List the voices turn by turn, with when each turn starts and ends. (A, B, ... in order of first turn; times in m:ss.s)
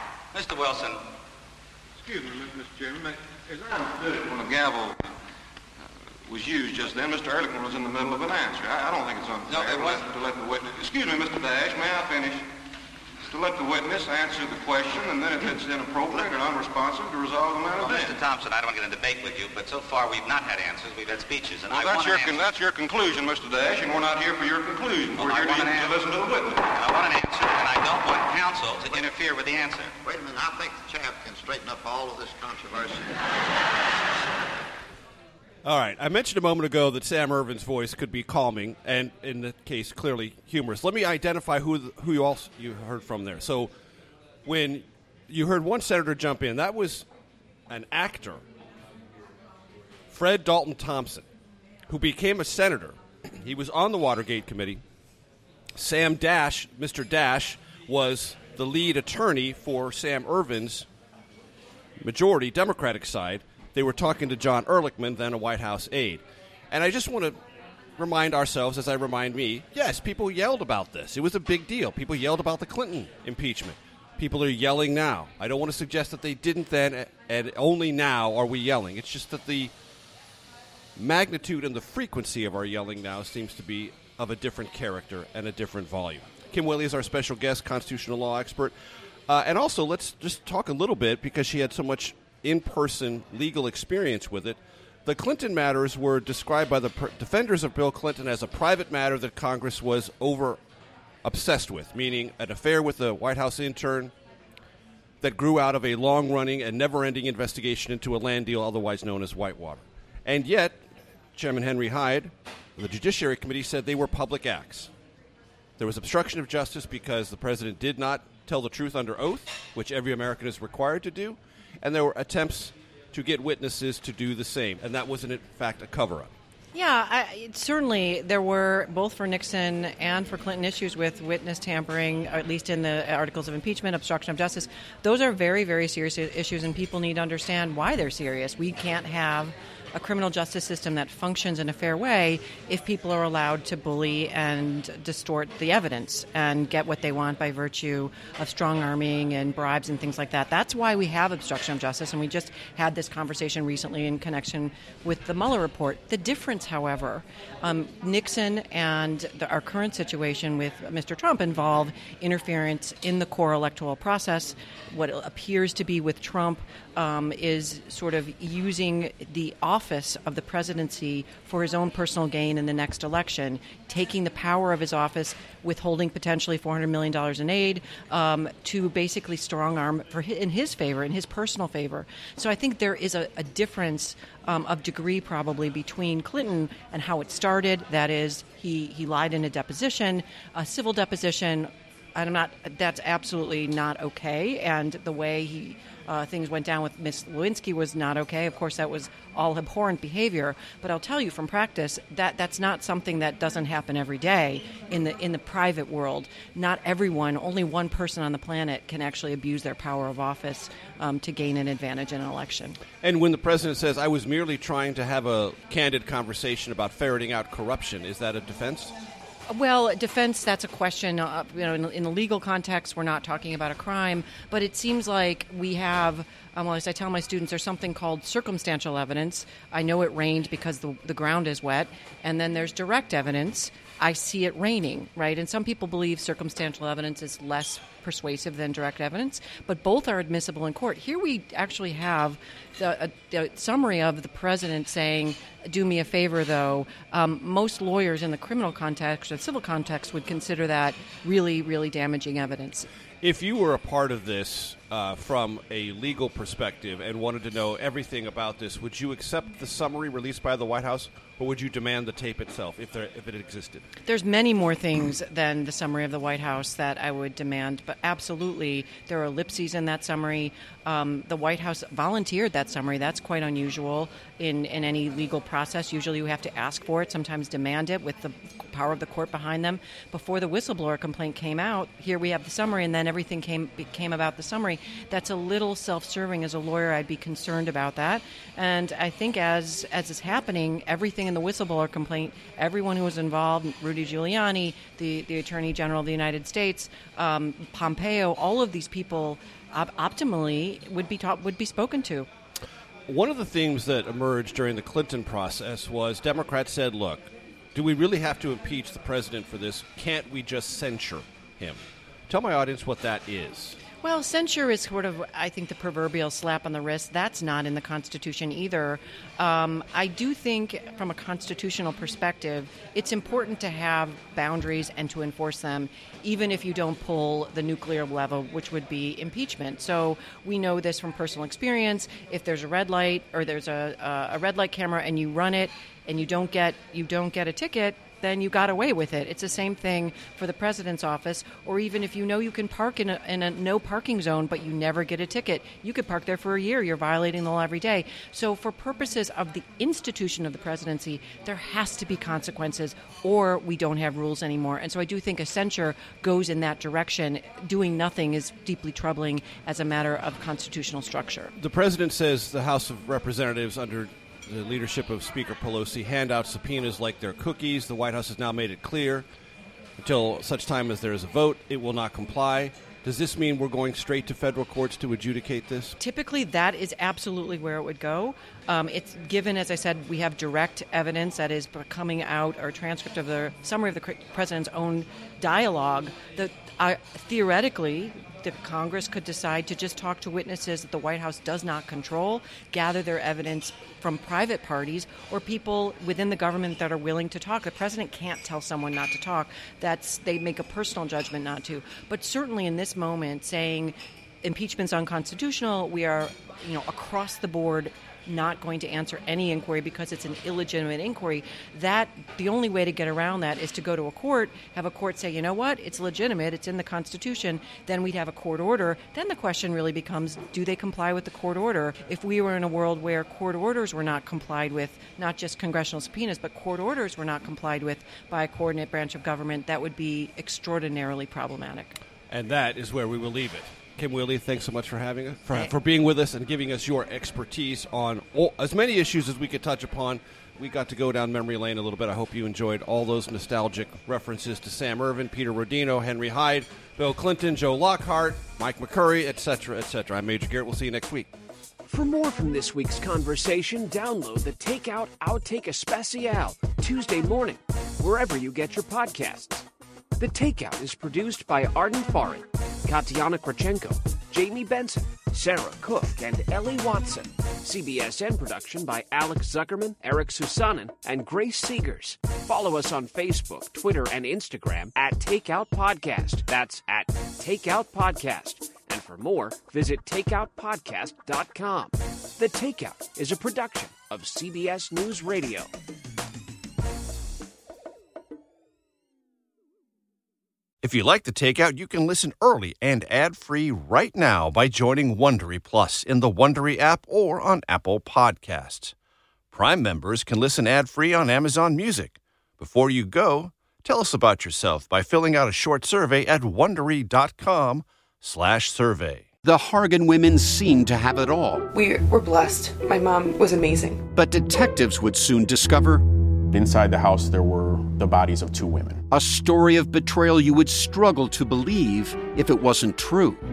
0:00.3-0:01.0 A
0:02.0-0:05.1 B
0:06.3-0:12.5 B
0:09.4-0:10.1 A
0:13.3-0:18.2 B
0:17.8-0:22.5 A
0:21.7-0:26.7 B
0:25.2-0:26.0 A
0:26.7-0:29.9 A
0:30.0-0:33.4 C
0:35.6-0:43.7 D
0:44.4-0:47.0 D
0:47.7-0:48.4 D
0:50.1-0:51.2 D
0:51.9-0:54.8 D
0:55.8-1:00.8 D
1:02.0-1:07.4 D
1:08.0-1:19.7 D
1:21.0-1:28.7 D
1:29.3-1:40.6 D
1:41.2-1:44.1 D
1:45.2-1:50.8 D
1:51.3-1:54.9 D
1:55.8-2:06.3 D
2:06.7-3:32.8 E
3:33.0-3:38.9 D
3:39.5-4:12.9 E
4:13.2-4:23.9 D
4:24.0-5:02.3 E
5:03.1-5:13.8 D
5:14.0-6:01.5 E
6:01.6-6:09.2 D
6:10.0-6:16.0 D
6:16.0-7:12.0 E
7:12.3-7:31.3 D
7:31.8-7:39.6 F
7:40.2-8:05.7 F
8:10.8-8:18.9 D
8:19.5-8:29.2 D
8:29.4-8:31.7 G
8:31.8-8:34.0 H
8:34.1-8:36.0 G
8:36.5-8:39.0 I
8:39.1-8:43.4 G